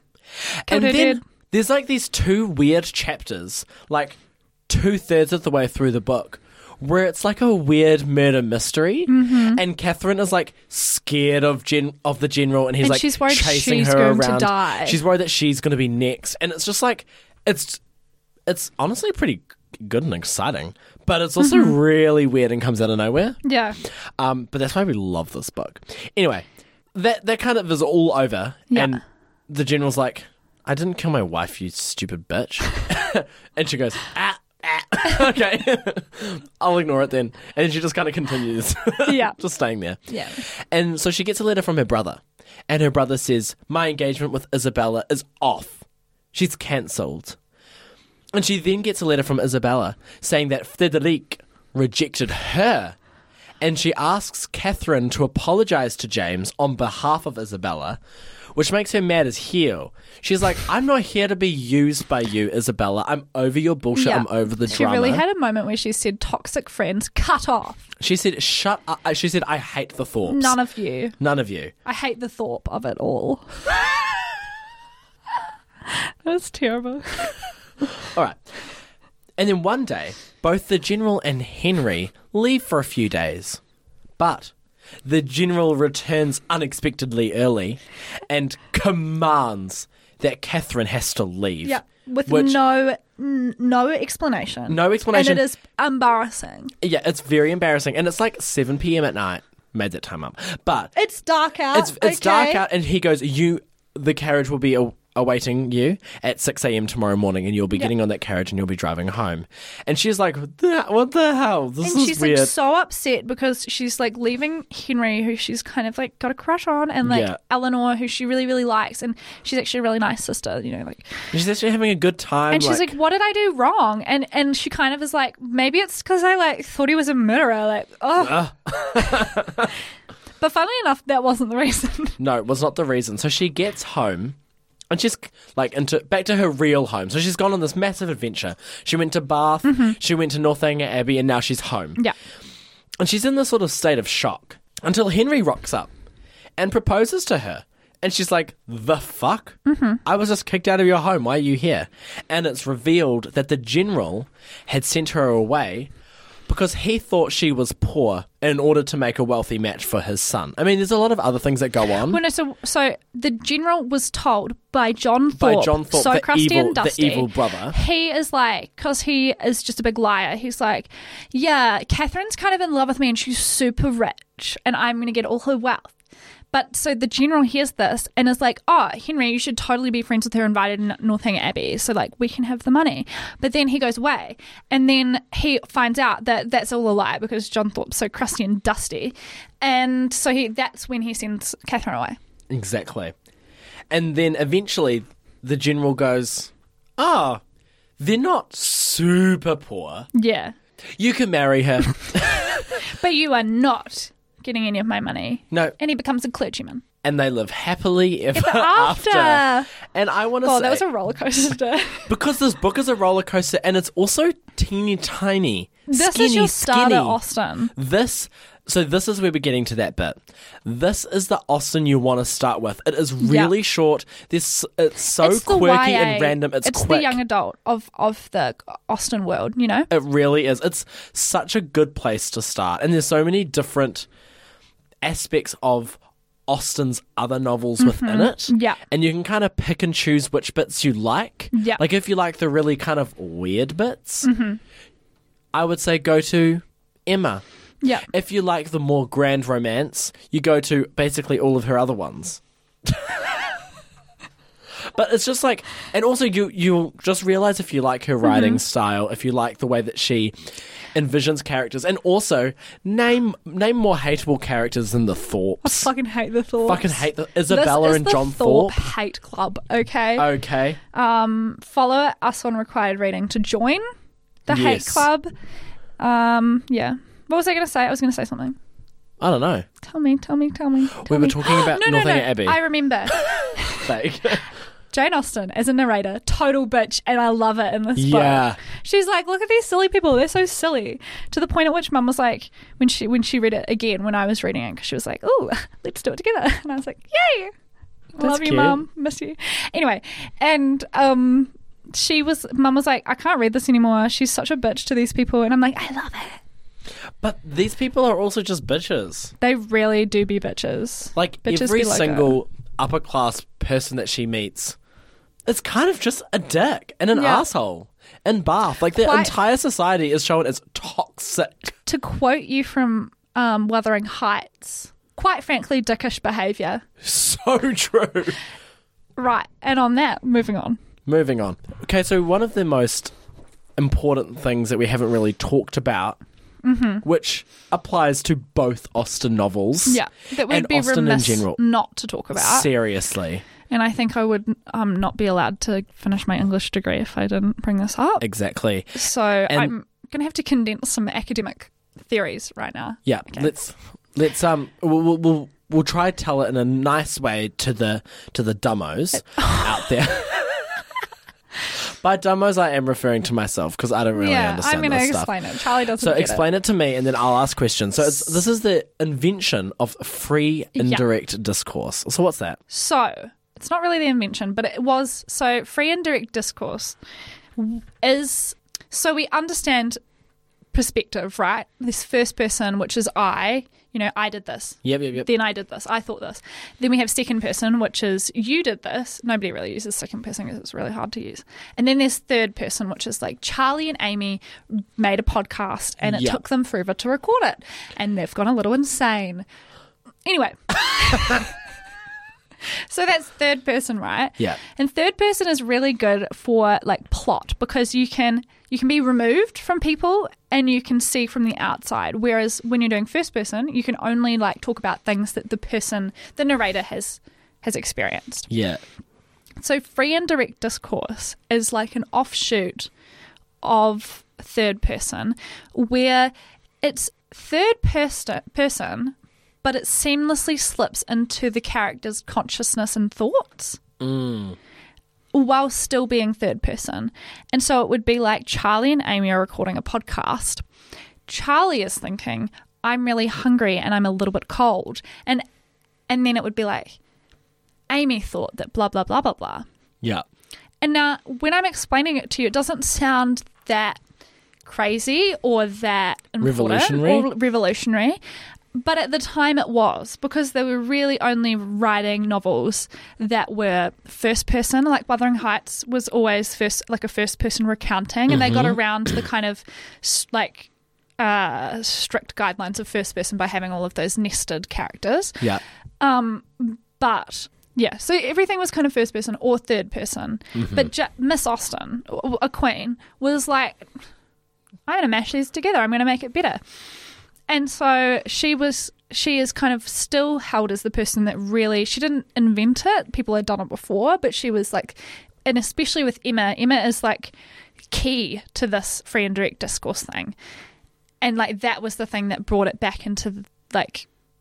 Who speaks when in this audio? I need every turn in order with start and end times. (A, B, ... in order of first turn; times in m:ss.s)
0:00.4-0:17.8 A
0:00.7-0:01.2 B
0:09.1-0:09.6 B
0:12.8-0:15.0 B
0:18.5-0:47.4 A
0:21.4-0:21.8 B
0:23.4-0:23.8 B
0:28.7-0:29.0 B
0:39.0-0:39.4 B
0:40.1-0:40.4 B
0:48.3-0:53.0 A
0:53.6-0:58.0 A
0:58.5-1:05.2 A
1:03.9-1:07.9 B
1:08.0-1:10.6 A
1:10.2-1:11.1 B
1:11.2-1:11.7 A
1:11.8-1:13.5 B
1:15.8-1:17.3 B
1:18.0-1:18.4 A
1:19.4-1:23.6 A
1:24.2-1:24.5 A
1:25.0-1:32.6 A
1:31.6-1:36.7 B
1:34.7-1:35.4 A
1:36.8-1:40.9 A
1:40.9-1:42.6 B
1:41.7-1:52.5 A
1:51.8-2:01.2 B
1:57.0-1:57.4 A
2:01.3-2:02.9 A
2:02.5-2:09.5 B
2:08.2-2:09.7 A
2:10.4-2:12.2 B
2:12.2-2:14.4 A
2:14.9-2:22.0 A
2:19.6-2:20.0 B
2:23.0-2:25.9 A
2:26.6-2:35.9 A
2:29.6-2:30.0 B
2:36.5-2:42.2 A
2:42.1-2:55.9 B
2:45.4-2:47.8 A
2:56.5-3:12.2 B
3:12.5-3:13.1 A
3:13.9-3:17.4 A
3:18.0-3:20.1 A
3:20.1-3:20.5 B
3:21.0-3:22.8 A
3:22.7-3:26.8 B
3:27.0-3:30.8 A
3:28.3-3:29.7 B
3:30.4-3:32.1 B
3:32.1-3:37.2 A
3:35.9-3:37.7 B
3:37.7-3:47.2 A
3:43.2-3:43.5 B
3:45.2-3:49.9 B
3:49.9-3:54.1 A
3:55.0-4:04.3 A
3:57.8-3:58.8 B
4:01.5-4:01.8 B
4:04.2-4:04.6 B
4:05.5-4:07.4 A
4:07.8-4:08.1 B
4:08.1-4:13.4 A
4:14.9-4:25.9 A
4:18.2-4:18.6 B
4:25.6-4:30.3 B
4:26.6-4:28.9 A
4:30.2-4:30.8 A
4:30.9-4:33.9 B
4:34.4-4:35.3 B
4:34.5-4:35.1 A
4:36.0-4:38.6 B
4:39.2-4:39.6 A
4:39.8-4:43.8 B
4:41.0-4:42.6 A
4:43.1-4:44.5 A
4:44.9-4:57.5 B
4:48.0-4:48.6 A
4:58.1-5:06.4 B
4:58.2-4:58.8 A
5:07.2-5:09.3 A
5:09.4-5:12.3 B
5:11.1-5:14.8 A
5:15.4-5:21.8 A
5:17.1-5:17.4 B
5:19.0-5:19.3 B
5:21.8-5:26.8 B
5:27.0-5:28.4 A
5:29.2-5:30.8 B
5:31.0-5:33.1 A
5:33.8-5:36.2 A
5:36.6-5:37.0 B
5:37.0-5:41.6 A
5:39.8-5:42.7 B
5:42.3-5:43.4 A
5:43.7-5:48.2 B
5:48.2-5:49.7 A
5:48.9-5:53.5 B
5:53.0-6:00.7 A
5:59.2-5:59.8 B
6:01.8-6:05.3 A
6:04.1-6:06.4 B
6:06.0-6:12.6 A
6:10.8-6:11.0 B
6:12.7-6:17.0 B
6:17.6-6:20.0 B
6:20.7-6:39.5 B
6:24.8-6:25.3 A
6:36.0-6:36.4 A
6:40.2-6:41.5 B
6:42.9-6:58.5 B
6:58.5-6:58.8 A
6:59.6-7:02.9 B
7:03.6-7:13.8 B
7:14.0-7:14.6 A
7:15.3-7:20.6 B
7:21.3-7:25.4 B
7:26.1-7:27.0 B
7:27.9-7:29.6 B
7:30.8-7:34.0 B
7:34.6-7:38.2 B
7:36.4-7:37.3 A
7:38.7-7:55.5 B
7:48.3-7:48.8 A
7:56.0-8:03.9 B
8:00.6-8:00.9 A
8:04.9-8:06.6 B
8:07.5-8:17.3 B
8:17.9-8:20.4 B
8:21.2-8:24.1 B